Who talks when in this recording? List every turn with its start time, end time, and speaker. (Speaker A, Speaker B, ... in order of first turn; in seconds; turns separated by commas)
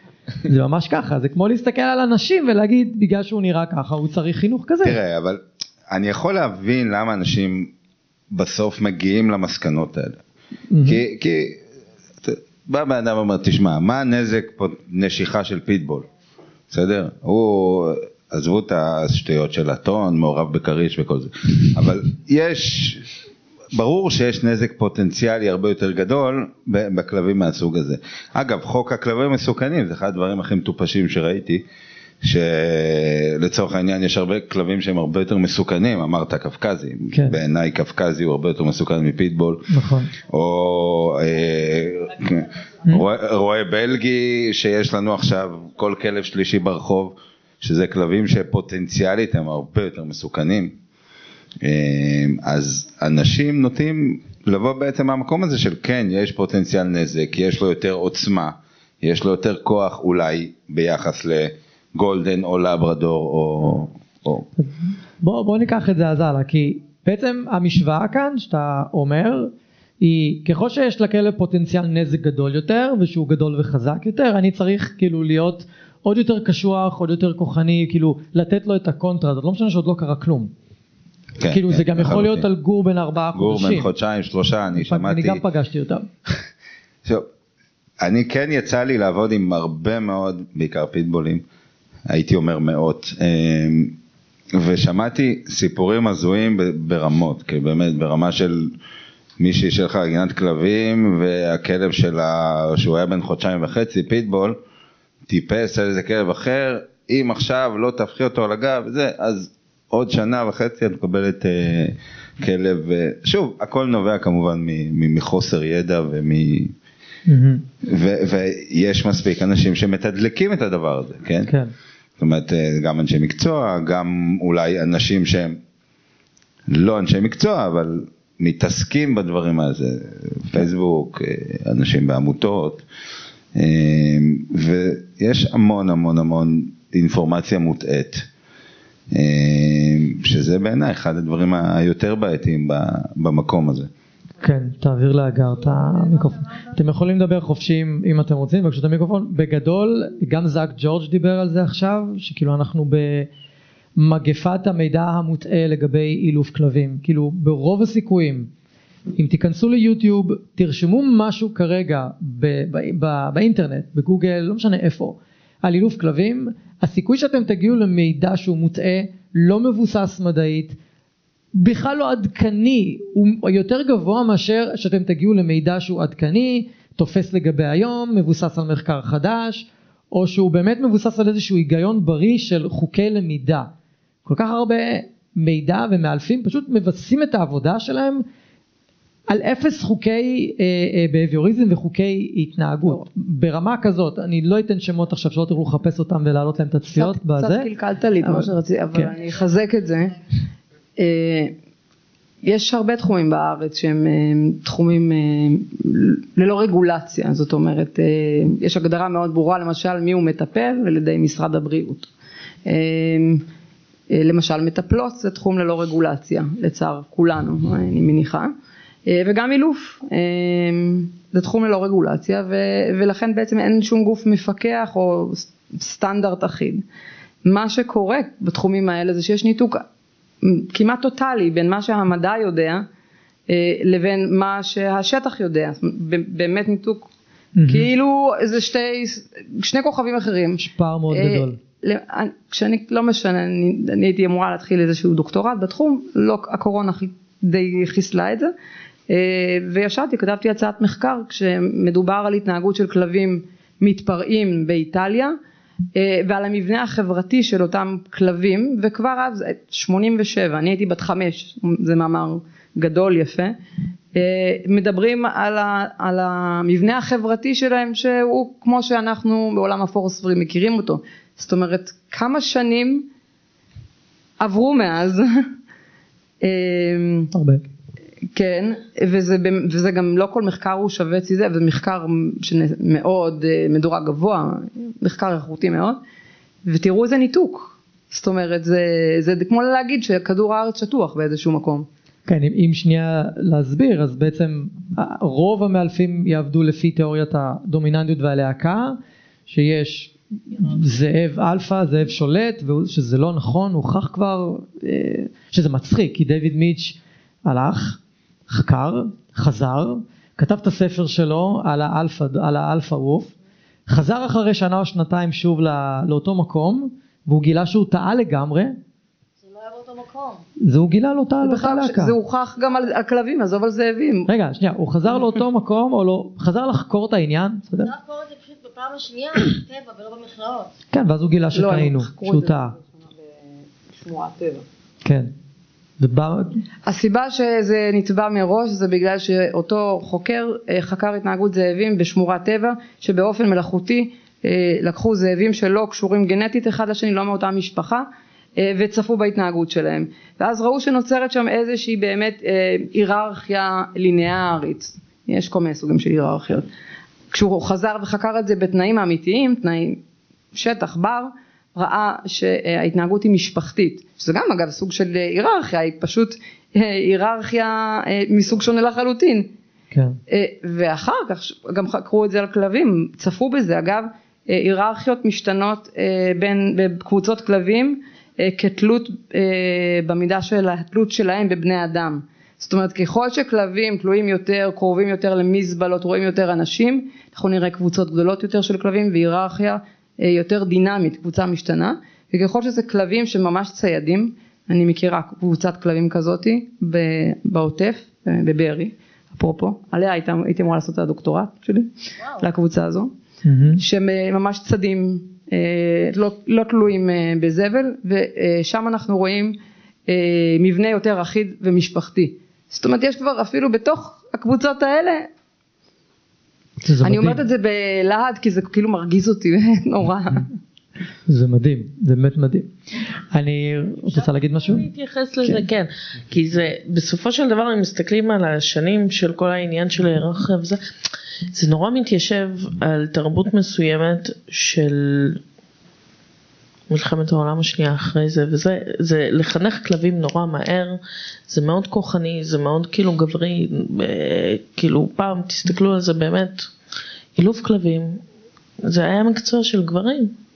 Speaker A: 0.4-5.0, Speaker B: 4.8-7.7, Speaker B: 8.3-10.2, Speaker A: 10.7-11.0, Speaker B: 10.8-11.6, Speaker B: 12.2-16.1, Speaker B: 16.7-23.1, Speaker B: 23.7-31.6, Speaker B: 32.2-50.7, Speaker A: 37.1-37.4, Speaker A: 39.7-40.1, Speaker B: 51.6-64.5, Speaker A: 64.6-80.5, Speaker B: 81.4-82.5, Speaker A: 81.5-83.9, Speaker B: 83.3-85.4, Speaker A: 84.8-86.1, Speaker B: 88.0-91.4, Speaker B: 92.1-94.0, Speaker B: 94.5-98.7, Speaker B: 99.4-104.6, Speaker B: 105.3-116.7, Speaker A: 117.3-117.6, Speaker B: 117.8-121.5, Speaker A: 121.5-121.7, Speaker B: 122.2-125.6, Speaker B: 126.7-132.8, Speaker B: 133.5-138.2, Speaker B: 139.1-143.9, Speaker A: 144.4-153.3, Speaker A: 154.0-158.5, Speaker A: 159.2-170.7, Speaker A: 171.5-183.7, Speaker A: 184.2-188.2, Speaker A: 189.3-197.7, Speaker C: 196.9-200.1, Speaker A: 198.2-199.1, Speaker C: 201.0-201.5, Speaker C: 202.4-212.1, Speaker C: 212.7-213.4, Speaker C: 214.1-218.5, Speaker C: 219.1-226.8, Speaker C: 227.4-229.8, Speaker C: 230.4-232.8, Speaker C: 233.5-237.1, Speaker A: 237.6-237.9, Speaker C: 237.7-248.5, Speaker A: 240.6-241.6, Speaker C: 249.1-255.3, Speaker C: 255.9-263.6, Speaker C: 264.1-273.1, Speaker C: 274.4-275.3, Speaker C: 276.4-277.3, Speaker A: 277.3-277.6, Speaker C: 278.3-286.0, Speaker C: 286.6-291.9, Speaker A: 292.3-308.0, Speaker A: 308.5-313.3, Speaker A: 313.9-318.8, Speaker D: 319.4-320.4, Speaker A: 320.6-322.1, Speaker C: 321.4-324.3, Speaker A: 324.3-327.9, Speaker D: 327.8-330.7, Speaker A: 330.9-332.7, Speaker C: 331.5-333.3, Speaker C: 333.9-334.6, Speaker A: 335.0-335.3, Speaker A: 336.0-336.6, Speaker C: 336.9-348.1, Speaker C: 348.6-356.7, Speaker C: 357.3-360.0, Speaker C: 360.5-369.5, Speaker A: 369.9-370.2, Speaker C: 370.3-403.1, Speaker A: 403.4-403.8, Speaker C: 403.7-415.3, Speaker A: 416.8-417.4, Speaker C: 417.0-420.5, Speaker A: 421.3-422.7, Speaker A: 423.3-424.9, Speaker E: 424.2-430.8, Speaker E: 431.5-435.4, Speaker E: 436.9-446.7, Speaker E: 447.4-448.2, Speaker E: 448.8-450.3